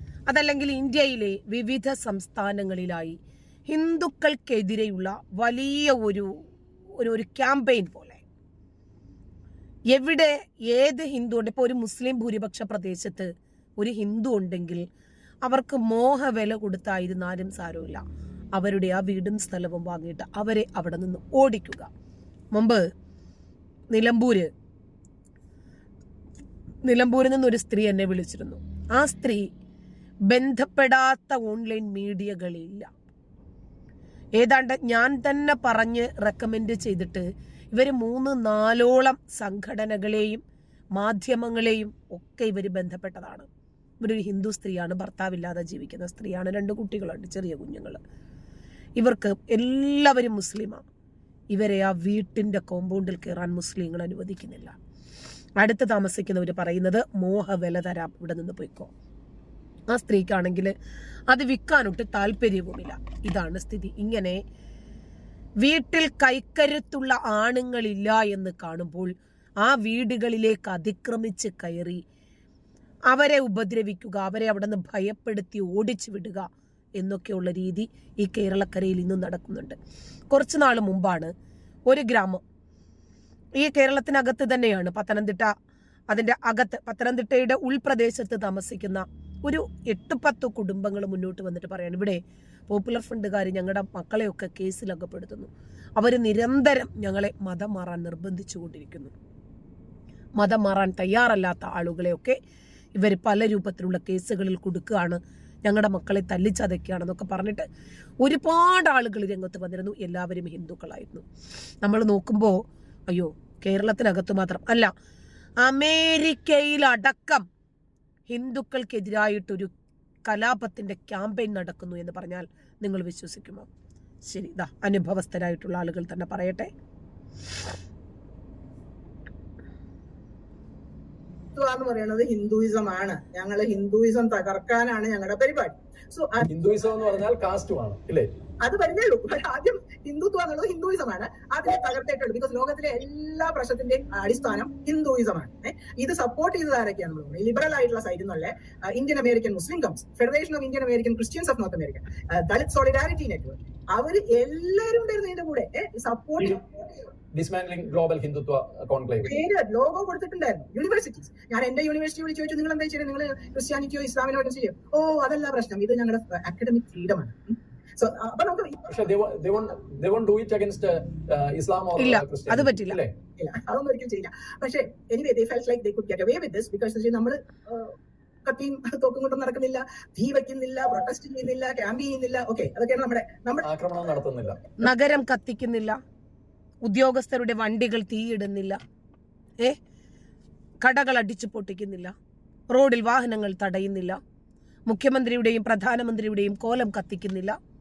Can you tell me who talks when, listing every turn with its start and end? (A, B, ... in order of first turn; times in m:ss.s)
0:00.3-0:06.3 A
0:07.0-0:08.2 A
0:09.9-0:14.8 A
0:15.4-0:18.0 A
0:18.5-0:21.9 A
0:22.5-0:22.9 A
0:23.9-0:24.5 A
0:26.8-0:29.5 A
0:30.3-0:32.9 A
0:34.4-0:40.4 A
0:41.0-0:43.5 A
0:44.0-0:48.0 A
0:49.0-0:50.8 A
0:51.5-0:54.7 A
0:55.6-0:58.9 A
0:59.9-1:00.7 A
1:01.3-1:04.4 A
1:05.6-1:12.0 A
1:13.1-1:16.5 A
1:17.0-1:19.8 A
1:20.3-1:21.3 A
1:21.9-1:22.4 A
1:23.6-1:25.5 A
1:26.1-1:39.1 A
1:40.4-1:42.4 A
1:43.0-1:47.7 A
1:48.2-1:51.2 A
1:51.8-1:54.9 A
1:55.6-1:57.4 A
1:58.3-1:59.7 A
2:00.3-2:03.7 A
2:04.3-2:06.7 A
2:11.6-2:16.5 B
2:16.5-2:18.3 C
2:18.6-2:37.1 B
2:37.3-2:39.3 C
2:39.2-2:48.9 B
2:48.9-2:53.1 C
2:52.0-2:53.0 A
2:53.4-2:57.9 B
2:58.4-3:03.7 B
3:03.6-3:04.6 C
3:04.8-3:06.0 A
3:06.8-3:08.8 A
3:10.8-3:12.1 A
3:12.7-3:14.2 A
3:14.9-3:17.6 A